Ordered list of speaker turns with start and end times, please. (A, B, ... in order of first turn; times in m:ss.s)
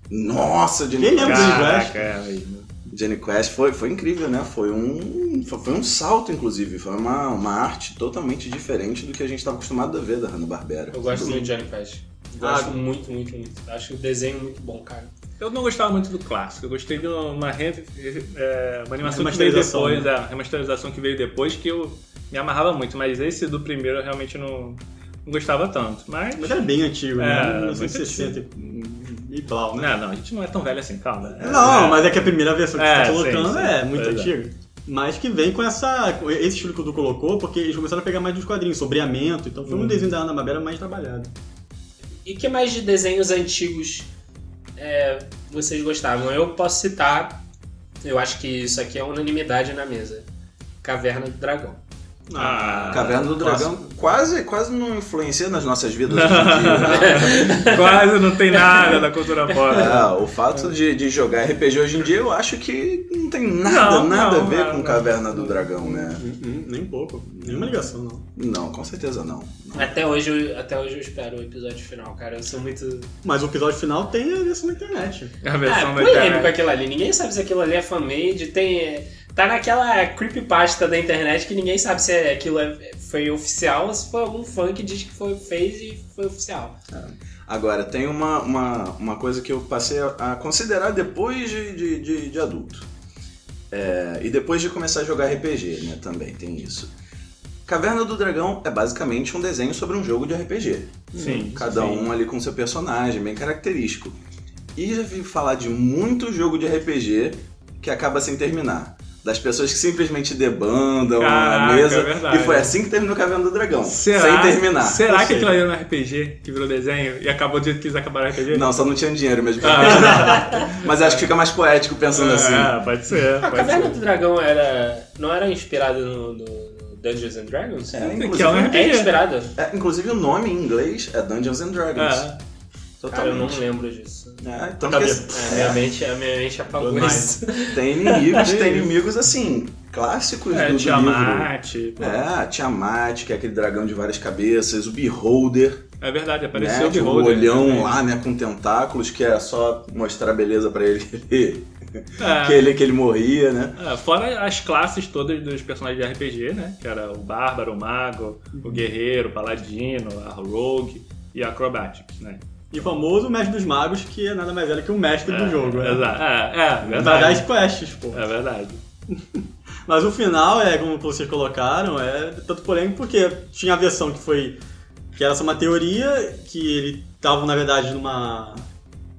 0:00.1-0:01.9 A
0:01.0-0:02.0 B
0:01.2-0:02.7 C
0:02.9-0:11.5 A
0:10.9-0:15.1 D
0:12.4-0:12.8 B
0:15.4-0:28.4 C
0:19.0-0:20.1 B
0:26.4-0:29.9 B
0:29.8-0:34.3 C
0:31.4-0:41.3 B
0:39.6-0:40.1 C
0:42.2-0:44.1 D
0:44.8-0:47.4 D
0:48.0-0:50.3 D
0:50.8-0:51.8 D
0:52.3-0:53.8 B
0:52.4-0:53.3 C
0:52.9-0:57.8 A
0:56.1-1:00.1 C
0:56.8-0:59.0 D
0:59.7-1:06.2 A
1:03.6-1:05.4 C
1:05.8-1:08.2 B
1:07.3-1:10.0 A
1:09.8-1:13.1 D
1:13.2-1:15.4 B
1:15.4-1:16.6 C
1:15.6-1:26.8 D
1:26.9-1:32.9 A
1:33.7-1:36.9 A
1:37.6-1:44.2 A
1:41.1-1:41.6 B
1:41.1-1:42.1 C
1:44.8-1:55.0 A
1:51.2-1:52.7 C
1:53.8-1:58.7 C
1:55.0-1:55.6 B
1:58.5-2:02.8 A
1:59.6-2:01.2 C
2:00.3-2:00.6 D
2:02.1-2:04.0 C
2:03.4-2:08.1 D
2:07.9-2:08.9 A
2:08.0-2:09.1 C
2:08.7-2:09.5 D
2:09.5-2:12.3 A
2:12.0-2:12.4 C
2:13.0-2:13.6 A
2:13.1-2:14.4 D
2:14.4-2:15.8 A
2:14.8-2:15.7 B
2:15.3-2:18.2 D
2:16.7-2:17.3 B
2:17.7-2:25.8 A
2:18.3-2:18.9 C
2:20.5-2:22.2 C
2:26.0-2:28.0 C
2:26.5-2:33.8 A
2:32.2-2:32.7 C
2:33.8-2:42.4 C
2:38.6-2:38.8 B
2:42.7-2:46.2 B
2:45.3-2:47.5 C
2:46.9-2:48.2 B
2:48.1-2:48.8 C
2:49.1-2:54.6 B
2:55.2-2:58.7 B